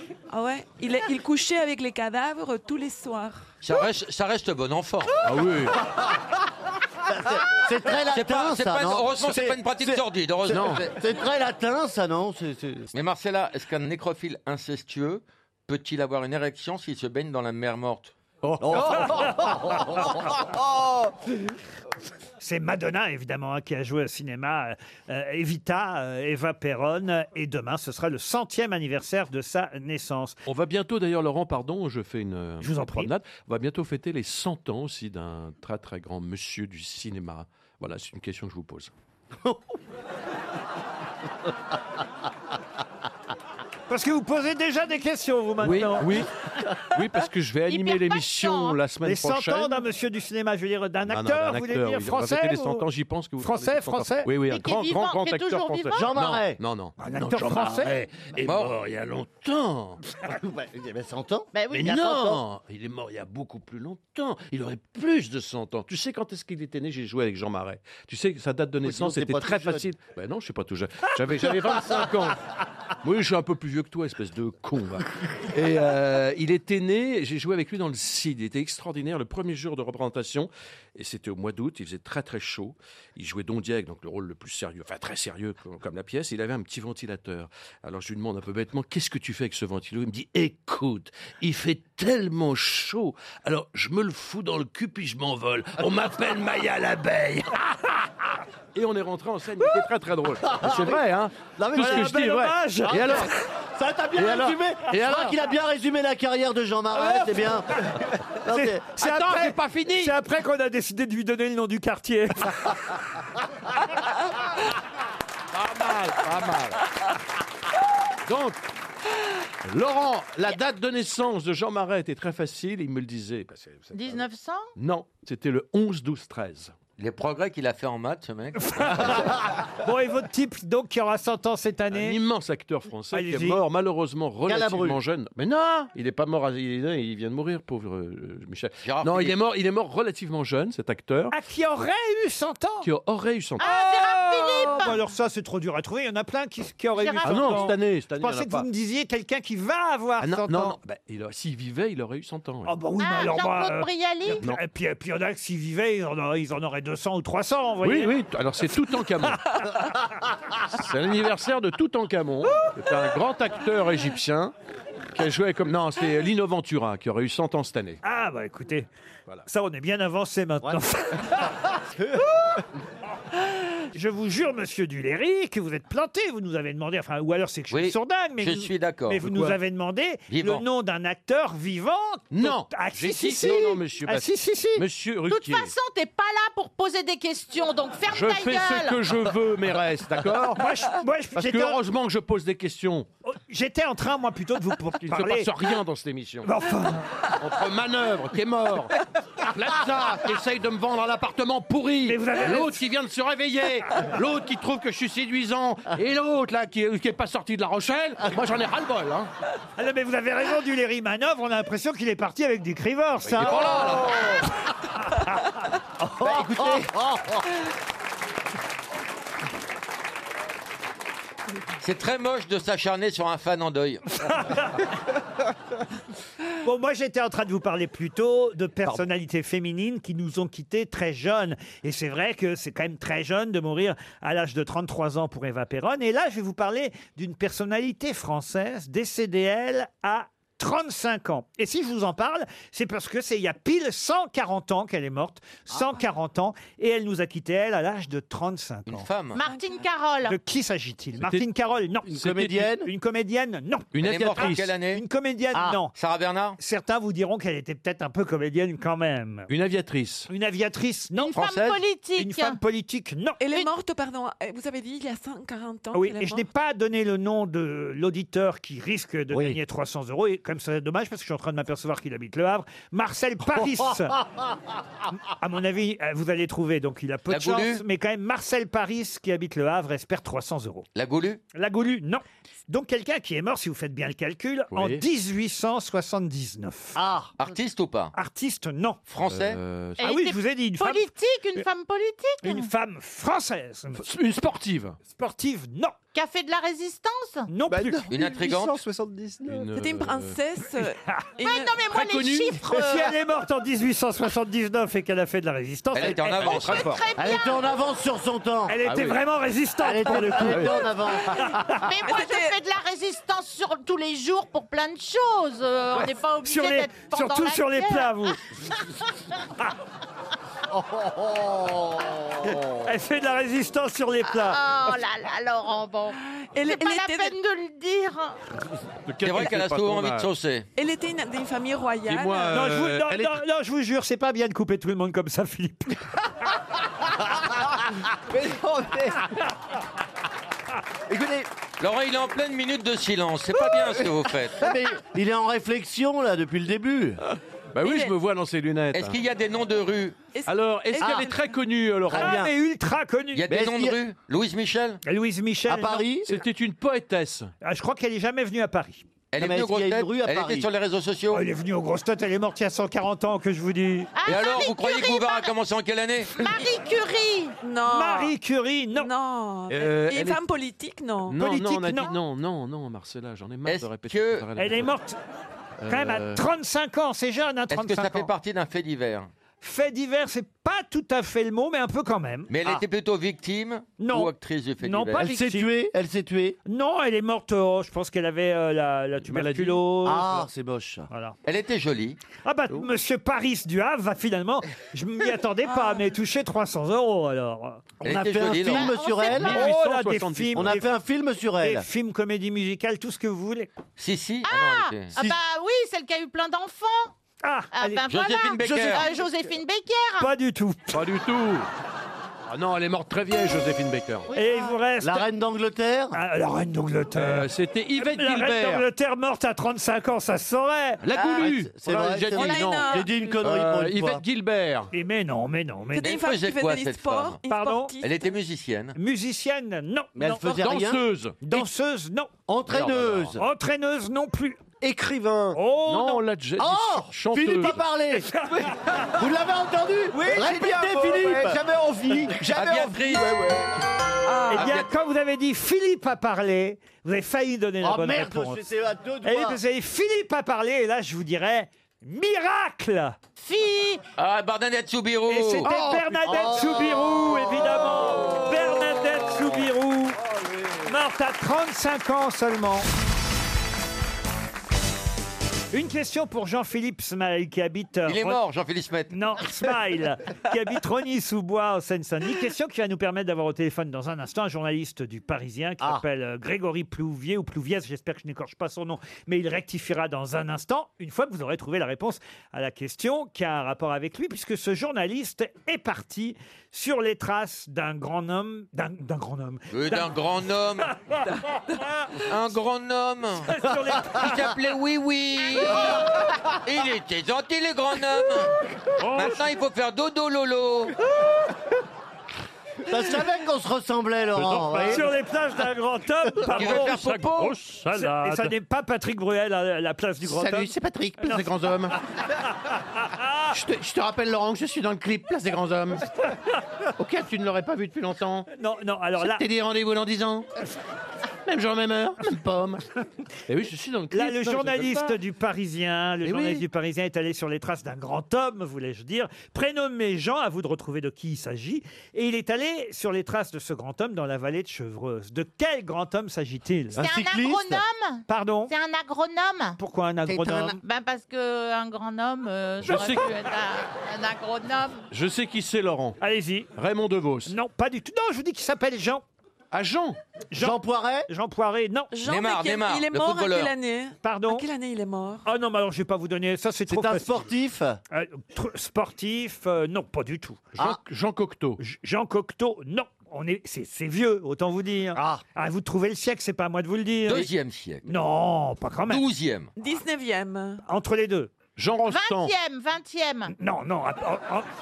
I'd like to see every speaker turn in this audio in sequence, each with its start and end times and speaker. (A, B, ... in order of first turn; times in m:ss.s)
0:00.3-0:03.4 A
0:03.6-0:05.2 B
0:05.2-0:05.8 C
0:07.0-0:12.9 D
0:08.1-0:10.9 B
0:10.5-0:10.8 C
0:12.9-0:18.1 B
0:18.4-0:19.3 C
0:18.6-0:20.1 D
0:22.4-0:30.4 E
0:30.4-0:38.9 C
0:32.6-0:33.1 E
0:43.9-0:46.2 E
0:45.6-0:49.8 C
0:47.7-0:48.8 F
0:49.0-0:52.8 E
0:51.0-1:00.0 C
0:53.4-0:54.3 E
0:54.5-0:56.1 F
0:55.9-0:56.6 D
0:57.0-0:57.9 E
1:00.2-1:02.4 D
1:01.7-1:12.4 C
1:08.8-1:09.8 D
1:11.6-1:11.9 D
1:13.0-1:37.6 C
1:38.7-1:43.3 C
1:40.4-1:41.0 D
1:41.6-1:42.2 D
1:41.7-1:43.2 E
1:42.9-1:48.8 D
1:44.2-1:45.3 C
1:47.0-1:47.3 E
1:48.5-1:52.8 E
1:48.9-1:50.1 C
1:55.5-1:56.8 C
1:58.3-1:58.6 C
1:59.6-2:04.2 C
2:03.9-2:04.7 F
2:04.8-2:06.8 C
2:07.0-2:09.3 B
2:08.6-2:12.2 E
2:11.9-2:21.3 C
2:13.1-2:13.6 E
2:14.5-2:15.0 D
2:18.8-2:19.4 B
2:21.3-2:22.9 E
2:22.8-2:23.6 C
2:23.6-2:30.8 E
2:23.6-2:25.0 F
2:27.0-2:27.7 F
2:27.2-2:28.6 C
2:30.2-2:32.8 C
2:32.6-2:38.2 E
2:33.0-2:34.4 F
2:34.3-2:34.6 C
2:37.8-2:39.6 C
2:40.7-2:44.5 C
2:45.1-2:48.0 C
2:48.0-2:48.9 E
2:49.4-2:51.5 E
2:53.9-3:04.8 E
2:57.7-2:59.2 B
2:59.2-2:59.6 C
3:00.3-3:00.6 B
3:02.3-3:05.7 C
3:05.3-3:09.1 F
3:08.1-3:10.8 C
3:10.5-3:11.8 E
3:11.3-3:13.1 C
3:13.3-3:15.5 E
3:15.1-3:16.5 C
3:16.4-3:17.1 E
3:17.3-3:29.3 C
3:22.0-3:22.8 E
3:29.8-3:33.6 E
3:33.2-3:34.4 C
3:33.5-3:34.3 D
3:36.2-3:37.4 D
3:41.8-3:44.2 B
3:44.2-3:44.8 E
3:46.6-4:09.1 E
4:08.9-4:09.4 B
4:09.3-4:10.4 F
4:09.4-4:09.8 A
4:10.2-4:15.9 E
4:11.2-4:11.4 C
4:12.1-4:12.9 D
4:12.1-4:12.7 C
4:13.9-4:14.6 C
4:14.0-4:15.0 B
4:15.9-4:16.6 B
4:16.6-4:19.5 E
4:19.5-4:20.3 C
4:20.3-4:21.4 E
4:21.2-4:22.6 F
4:21.3-4:21.8 B
4:22.2-4:23.4 E
4:23.4-4:26.4 A
4:25.9-4:34.2 E
4:35.2-4:40.8 E
4:37.3-4:37.8 B
4:40.9-4:41.4 B
4:41.5-4:47.0 E
4:44.7-4:45.0 C
4:47.0-4:47.3 D
4:47.4-4:48.1 B
4:48.1-4:49.0 E
4:49.1-4:49.6 B
4:49.2-4:50.0 C
4:50.0-4:52.7 F
4:50.0-4:51.6 E
4:52.4-4:54.1 E
4:54.0-4:55.0 C
4:55.1-4:55.9 E
4:56.1-4:57.5 F
4:57.5-4:58.0 E
4:57.7-4:59.6 G
4:58.1-4:58.8 B
4:59.4-5:00.4 C
4:59.7-5:01.8 A
5:01.4-5:03.1 F
5:01.9-5:02.9 C
5:02.6-5:06.7 E
5:05.9-5:06.9 B
5:06.4-5:07.0 C
5:06.6-5:07.8 F
5:07.1-5:08.8 D
5:08.7-5:10.7 E
5:08.8-5:09.2 C
5:09.8-5:11.5 D
5:10.4-5:10.9 C
5:11.5-5:11.8 E
5:11.7-5:18.3 F
5:12.0-5:12.6 A
5:15.9-5:18.4 E
5:20.7-5:22.6 D
5:22.4-5:24.6 E
5:24.3-5:28.4 F
5:26.5-5:27.4 A
5:29.0-5:30.3 C
5:29.2-5:30.7 B
5:30.8-5:32.7 A
5:32.0-5:33.4 C
5:32.5-5:36.0 E
5:38.3-5:39.2 G
5:41.1-5:41.5 G
5:41.8-5:44.7 B
5:44.6-5:47.2 D
5:47.3-5:49.2 C
5:47.8-5:48.2 A
5:48.9-5:50.2 B
5:50.3-5:51.6 A
5:50.5-5:52.4 C
5:51.0-5:51.3 D
5:52.1-5:52.5 D
5:52.1-5:53.4 E
5:53.3-5:55.0 B
5:53.5-5:54.0 D
5:55.0-5:56.0 E
5:55.7-5:56.4 D
5:56.2-5:57.5 C
5:57.6-5:59.0 E
5:59.3-6:01.4 B
5:59.4-6:00.7 D
6:01.3-6:04.1 E
6:04.2-6:05.5 F
6:04.2-6:06.4 B
6:06.3-6:07.5 F
6:07.6-6:08.3 A
6:07.8-6:09.1 E
6:08.9-6:11.4 A
6:09.7-6:10.4 C
6:11.3-6:14.9 C
6:11.4-6:12.1 E
6:13.6-6:14.4 B
6:14.6-6:15.2 E
6:15.8-6:16.4 C
6:15.9-6:18.3 E
6:17.7-6:19.3 B
6:19.6-6:22.5 E
6:22.5-6:25.3 B
6:24.0-6:25.7 E
6:25.2-6:26.6 D
6:26.6-6:30.4 E
6:29.2-6:29.8 C
6:30.0-6:31.1 D
6:31.1-6:31.4 E
6:31.4-6:32.2 B
6:32.4-6:38.8 E
6:35.6-6:36.1 F
6:38.0-6:39.0 B
6:38.0-6:39.7 D
6:38.7-6:39.5 F
6:39.3-6:40.8 C
6:39.3-6:40.9 E
6:40.5-6:41.8 D
6:41.6-6:43.7 E
6:44.0-6:45.1 B
6:44.4-6:47.1 F
6:47.4-6:48.0 E
6:47.7-6:50.3 F
6:48.1-6:49.1 B
6:48.6-6:49.2 E
6:50.2-6:51.0 E
6:50.9-6:51.7 C
6:52.5-6:54.3 C
6:54.3-6:55.3 E
6:55.0-6:56.2 D
6:56.1-7:01.4 E
6:57.2-6:58.9 C
7:01.0-7:04.9 C
7:01.4-7:04.2 D
7:02.3-7:03.4 A
7:04.9-7:06.1 E
7:05.9-7:08.1 A
7:06.0-7:07.4 B
7:07.5-7:08.0 E
7:08.0-7:09.0 B
7:09.0-7:10.6 E
7:10.2-7:11.0 D
7:10.5-7:11.6 C
7:11.4-7:12.3 E
7:12.5-7:13.4 D
7:12.7-7:13.4 C
7:13.4-7:14.6 E
7:14.8-7:15.6 G
7:15.5-7:16.2 E
7:15.8-7:17.8 C
7:16.6-7:18.3 D
7:19.0-7:22.4 D
7:20.1-7:23.7 G
7:22.5-7:23.4 B
7:24.2-7:24.8 A
7:24.5-7:28.6 E
7:24.5-7:24.8 B
7:27.8-7:29.6 D
7:29.2-7:33.2 E
7:33.4-7:34.0 F
7:34.2-7:35.7 B
7:35.3-7:40.2 E
7:35.6-7:36.6 C
7:36.2-7:37.2 D
7:40.8-7:42.9 E
7:45.7-7:48.4 E
7:48.0-7:49.1 B
7:49.1-8:10.1 E
8:09.7-8:10.9 B
8:10.9-8:11.2 E
8:11.7-8:12.1 E
8:12.2-8:13.5 B
8:13.5-8:14.5 E
8:14.1-8:21.0 B
8:19.0-8:19.4 E
8:22.9-8:25.0 D
8:24.4-8:25.0 C
8:24.5-8:27.0 E
8:26.4-8:27.6 B
8:26.5-8:28.5 C
8:27.9-8:31.4 E
8:30.2-8:32.0 C
8:33.0-8:33.6 E
8:33.5-8:36.0 C
8:37.0-8:38.5 C
8:38.5-8:39.4 E
8:39.1-8:40.4 C
8:41.4-8:42.8 C
8:43.5-8:45.2 C
8:44.1-8:57.0 E
8:46.2-8:46.6 C
8:56.9-8:57.8 D
8:57.0-8:59.8 F
8:58.3-8:58.7 E
8:59.8-9:00.8 E
9:00.2-9:00.8 D
9:00.8-9:05.1 F
9:02.8-9:03.2 C
9:05.1-9:06.2 C
9:06.2-9:06.7 E
9:06.8-9:07.5 C
9:07.5-9:09.2 E
9:09.7-9:10.2 C
9:10.5-9:12.1 E
9:10.6-9:11.3 D
9:12.1-9:15.4 A
9:12.2-9:13.7 B
9:14.2-9:14.7 E
9:15.4-9:17.5 E
9:16.9-9:18.0 D
9:18.1-9:20.6 E
9:20.7-9:21.8 C
9:21.8-9:27.5 E
9:25.1-9:25.4 D
9:27.3-9:28.1 B
9:28.0-9:29.2 E
9:29.1-9:29.7 B
9:29.8-9:30.8 A
9:30.8-9:31.5 E
9:31.8-9:32.5 C
9:32.1-9:33.5 F
9:33.5-9:34.7 E